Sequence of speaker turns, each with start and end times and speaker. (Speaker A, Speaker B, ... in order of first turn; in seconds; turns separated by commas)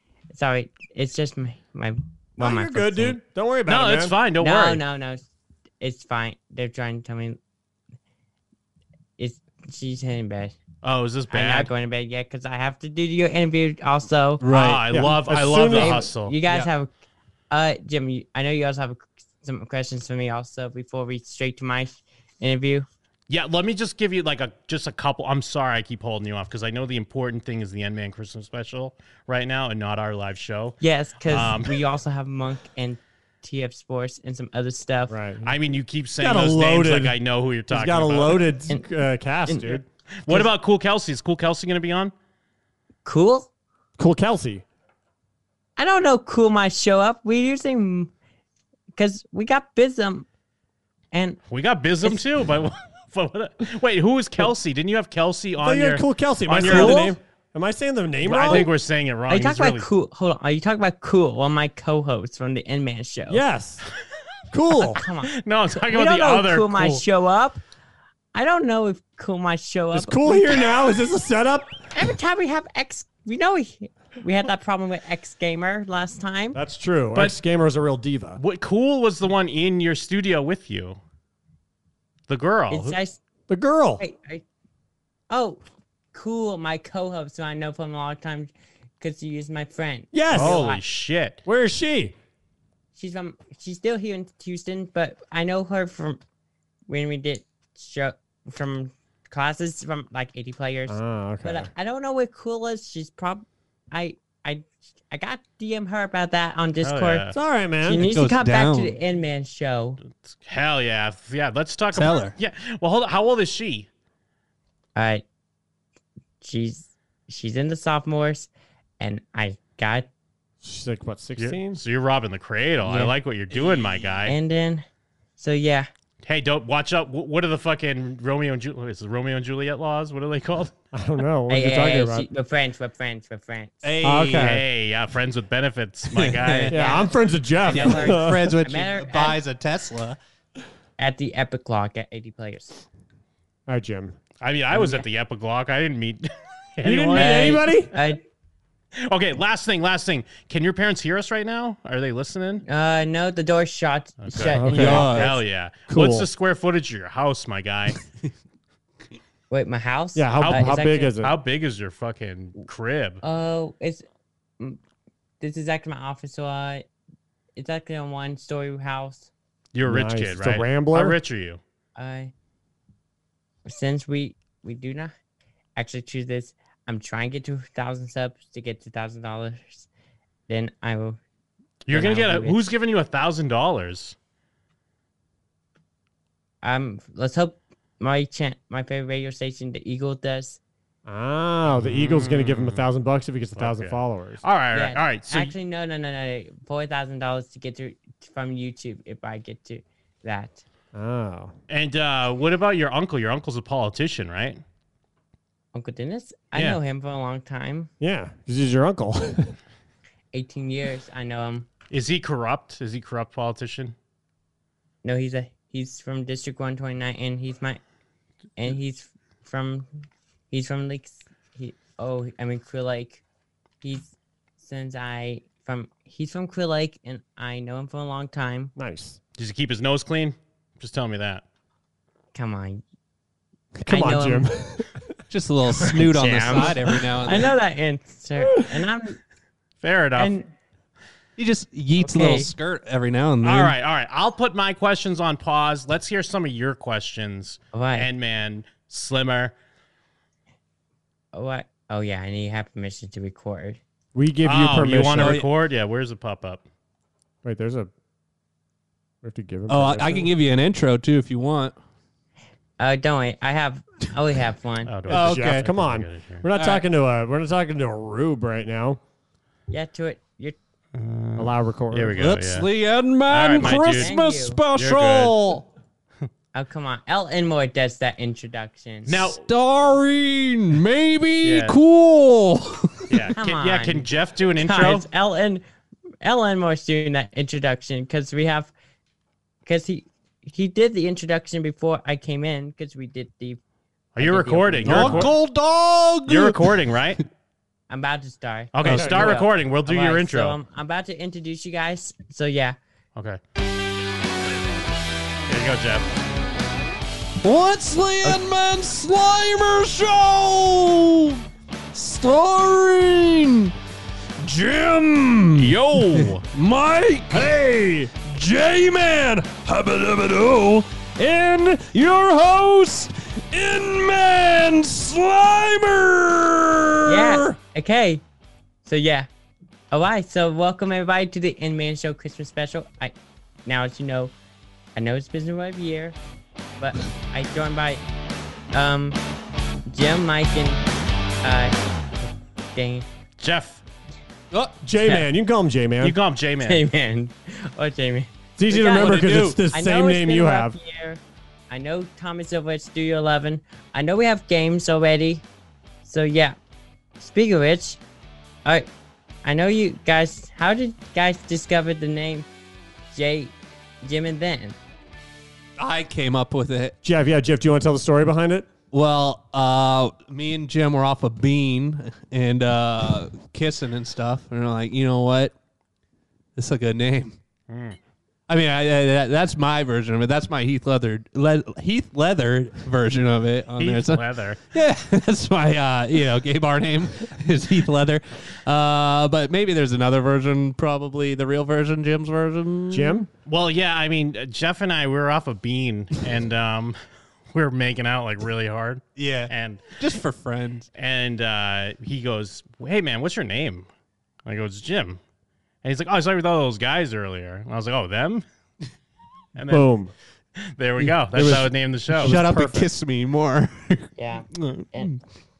Speaker A: 0.3-3.2, Speaker B: 2.4-4.1, Speaker C: 3.7-4.8, Speaker A: 4.4-5.2, Speaker A: 5.8-7.4, Speaker A: 9.2-10.6, Speaker C: 10.8-11.7, Speaker A: 11.3-14.4, Speaker D: 14.4-14.8, Speaker C: 14.5-16.3, Speaker B: 14.9-16.0, Speaker A: 15.7-16.9, Speaker A: 17.5-22.9, Speaker C: 23.3-31.7, Speaker A: 30.8-35.1, Speaker B: 35.1-35.5, Speaker C: 35.4-38.5, Speaker B: 36.2-37.1, Speaker B: 37.7-39.8, Speaker A: 39.5-40.5, Speaker C: 40.2-42.1, Speaker A: 43.0-43.5, Speaker B: 44.0-44.6, Speaker A: 45.8-48.1, Speaker A: 49.0-50.3, Speaker A: 51.1-51.4, Speaker C: 51.5-57.1, Speaker B: 55.6-58.7, Speaker A: 56.6-57.2, Speaker C: 58.2-59.9, Speaker A: 59.3-63.4, Speaker B: 63.3-63.8, Speaker B: 64.5-65.0, Speaker A: 64.8-67.6, Speaker C: 65.3-67.0, Speaker A: 68.3-70.6, Speaker B: 69.9-71.7, Speaker A: 71.9-76.6, Speaker B: 76.5-78.4, Speaker C: 78.4-81.0, Speaker C: 82.3-83.0, Speaker A: 82.7-83.2, Speaker B: 83.5-84.0, Speaker A: 84.0-84.4, Speaker A: 85.3-85.6, Speaker A: 86.1-90.8, Speaker B: 90.1-90.7, Speaker C: 90.3-91.4, Speaker B: 91.4-92.1, Speaker A: 92.9-96.2, Speaker A: 96.9-107.3, Speaker B: 100.9-101.7, Speaker C: 106.8-107.4, Speaker B: 107.3-108.0, Speaker A: 107.8-110.0, Speaker D: 108.0-109.0, Speaker C: 110.1-113.9, Speaker D: 111.9-112.3, Speaker A: 115.0-115.2, Speaker A: 116.4-118.5, Speaker A: 119.0-120.1, Speaker B: 120.6-121.8, Speaker C: 121.4-124.3, Speaker A: 122.8-123.1, Speaker D: 123.5-124.2, Speaker A: 124.2-124.8, Speaker A: 125.4-125.9, Speaker C: 126.2-130.7, Speaker B: 130.9-132.3, Speaker A: 131.5-133.8, Speaker D: 133.8-134.6, Speaker B: 134.0-134.6, Speaker C: 134.2-136.8, Speaker D: 136.1-136.7, Speaker A: 136.6-137.1, Speaker B: 136.7-138.6, Speaker A: 137.6-139.4, Speaker D: 137.8-140.2, Speaker A: 141.0-142.8, Speaker B: 143.7-144.2, Speaker C: 144.4-147.8, Speaker A: 144.7-145.0, Speaker B: 146.8-147.9, Speaker A: 147.1-148.2, Speaker C: 149.0-152.6, Speaker A: 152.6-155.3, Speaker C: 154.2-158.0, Speaker B: 154.5-155.1, Speaker D: 154.7-155.3, Speaker B: 155.9-156.3, Speaker A: 159.5-161.1, Speaker B: 160.1-161.3, Speaker C: 160.4-163.2, Speaker A: 163.2-164.0, Speaker A: 165.4-166.8, Speaker A: 167.6-169.3, Speaker C: 169.7-171.6, Speaker B: 169.8-171.2, Speaker A: 171.9-172.3, Speaker A: 173.7-175.1, Speaker A: 175.8-179.9, Speaker A: 180.5-181.2, Speaker C: 181.8-184.1, Speaker A: 181.9-182.6, Speaker A: 186.6-190.6, Speaker B: 191.1-194.4, Speaker C: 191.7-192.8, Speaker C: 193.6-195.5, Speaker A: 194.7-200.6, Speaker B: 200.9-201.5, Speaker C: 201.7-204.6, Speaker A: 205.7-207.9, Speaker C: 206.5-206.8, Speaker B: 208.0-209.6, Speaker A: 210.3-211.7, Speaker C: 211.9-213.9, Speaker A: 215.0-217.8, Speaker A: 218.6-219.9, Speaker A: 220.5-223.2, Speaker A: 223.8-228.7, Speaker B: 228.8-229.2, Speaker C: 229.4-231.4, Speaker A: 232.3-232.8, Speaker B: 233.8-235.0, Speaker A: 233.9-234.4, Speaker D: 235.3-237.5, Speaker A: 235.9-239.2, Speaker C: 239.8-240.3, Speaker A: 240.2-240.5, Speaker D: 241.4-243.7, Speaker A: 242.0-242.5, Speaker C: 243.4-249.5, Speaker A: 247.7-248.1, Speaker A: 251.3-253.8, Speaker B: 254.1-255.4, Speaker C: 254.4-256.6, Speaker D: 255.2-255.5, Speaker B: 257.4-257.9, Speaker B: 259.2-260.3, Speaker D: 259.7-261.7, Speaker A: 262.8-264.9, Speaker C: 264.9-266.5, Speaker B: 265.1-269.0, Speaker D: 265.1-265.7, Speaker D: 266.6-266.8, Speaker A: 269.7-270.6, Speaker C: 270.9-272.7, Speaker B: 271.4-272.2, Speaker D: 272.2-275.6, Speaker C: 273.3-274.1, Speaker A: 273.7-274.6, Speaker C: 274.7-275.4, Speaker A: 276.5-279.3, Speaker C: 279.1-279.4, Speaker D: 279.3-283.2, Speaker C: 281.4-281.8, Speaker C: 283.1-285.1, Speaker A: 283.4-284.1, Speaker A: 284.6-285.6, Speaker A: 286.2-288.7, Speaker A: 289.6-293.6, Speaker C: 294.1-295.3, Speaker A: 294.2-295.3, Speaker D: 294.8-296.6, Speaker C: 296.3-297.2, Speaker A: 297.9-302.8, Speaker C: 298.7-300.6, Speaker B: 298.8-299.3, Speaker C: 305.5-306.1, Speaker D: 307.4-311.4, Speaker D: 311.9-313.7, Speaker D: 314.4-327.6, Speaker C: 315.6-316.4, Speaker B: 317.3-318.1, Speaker A: 327.0-328.2, Speaker A: 328.8-329.3, Speaker A: 329.9-333.1, Speaker A: 333.6-334.3, Speaker A: 334.9-336.2, Speaker A: 336.8-338.0, Speaker A: 338.7-339.2, Speaker A: 339.9-340.8, Speaker A: 341.4-341.8, Speaker A: 342.7-343.1, Speaker C: 343.4-343.8, Speaker D: 344.5-344.8, Speaker B: 344.8-346.2, Speaker C: 346.0-346.8, Speaker A: 346.6-355.4, Speaker B: 348.6-350.8, Speaker D: 348.9-349.6, Speaker A: 356.0-356.6, Speaker A: 357.2-358.0, Speaker A: 359.4-362.5, Speaker A: 363.1-364.8, Speaker D: 365.8-366.9, Speaker B: 367.0-368.7, Speaker D: 368.9-375.5, Speaker D: 376.6-377.4, Speaker C: 377.7-378.0, Speaker D: 378.5-393.2, Speaker C: 383.8-384.6, Speaker B: 392.9-393.3, Speaker C: 393.4-397.0, Speaker C: 397.5-399.9, Speaker D: 399.1-400.9, Speaker C: 400.9-403.9, Speaker C: 404.4-405.2, Speaker C: 405.8-408.4, Speaker C: 409.6-409.9, Speaker B: 409.7-410.1, Speaker C: 410.6-412.6, Speaker D: 411.3-414.1, Speaker B: 411.4-412.8, Speaker A: 414.2-415.1, Speaker D: 414.6-415.0